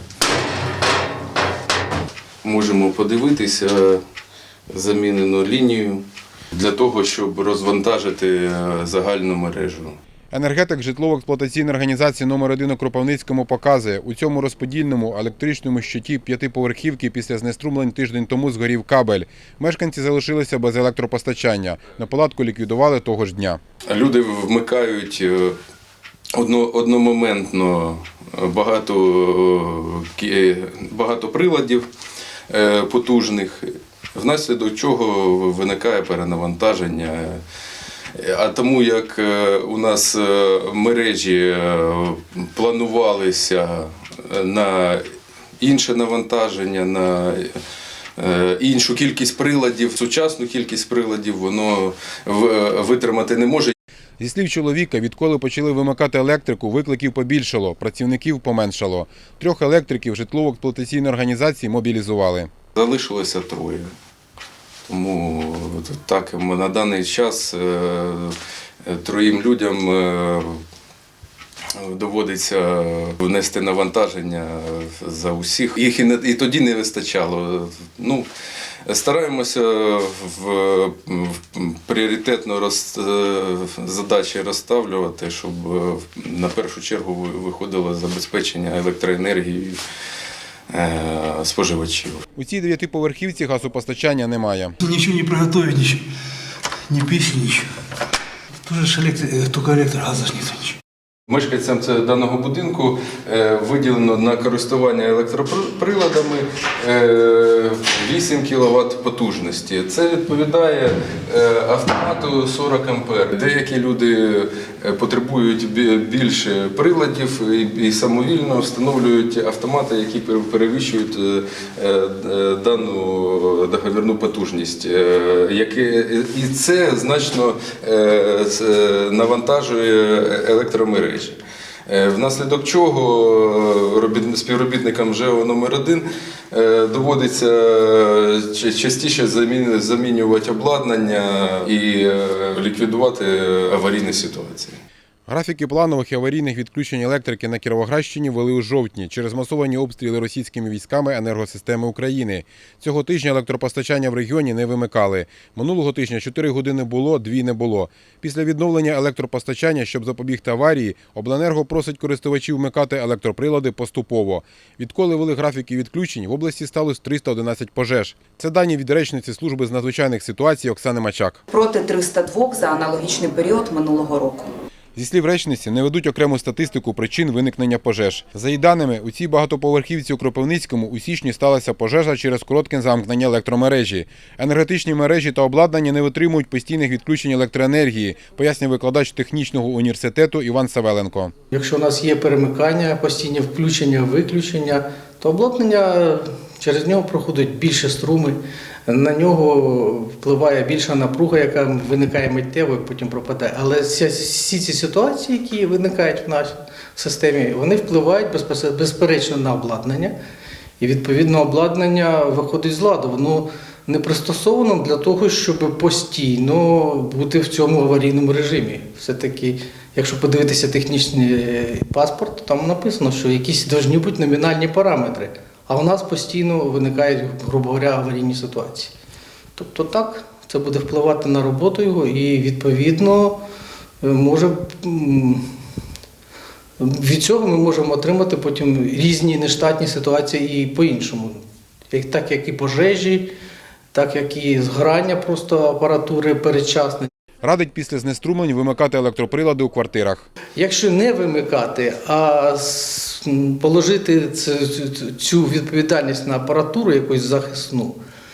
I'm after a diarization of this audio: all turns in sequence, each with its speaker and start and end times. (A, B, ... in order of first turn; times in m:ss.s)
0:02.4-0:04.0 A
0:04.7-0:09.9 A
0:10.3-0:23.6 B
0:23.9-0:25.6 A
0:26.3-0:31.9 A
0:32.5-0:37.4 A
0:38.1-0:45.0 A
0:45.6-0:47.6 A
0:48.2-0:53.7 A
0:54.2-1:02.5 B
1:02.7-1:03.9 A
1:04.9-1:10.6 A
1:11.7-1:18.3 A
1:18.8-1:29.8 A
1:30.7-1:32.2 A
1:32.4-1:34.7 B
1:34.8-1:36.0 C
1:36.9-1:37.7 C
1:38.6-1:40.8 C
1:41.3-2:24.8 A
2:25.3-2:51.4 B
2:51.5-2:54.5 D
2:54.9-3:11.3 B
3:11.5-3:30.1 E
3:30.8-3:48.9 E
3:49.6-3:53.4 E
3:54.0-3:55.4 E
3:56.8-4:03.3 E
4:03.9-4:07.1 E
4:07.4-4:10.3 B
4:10.5-4:18.0 E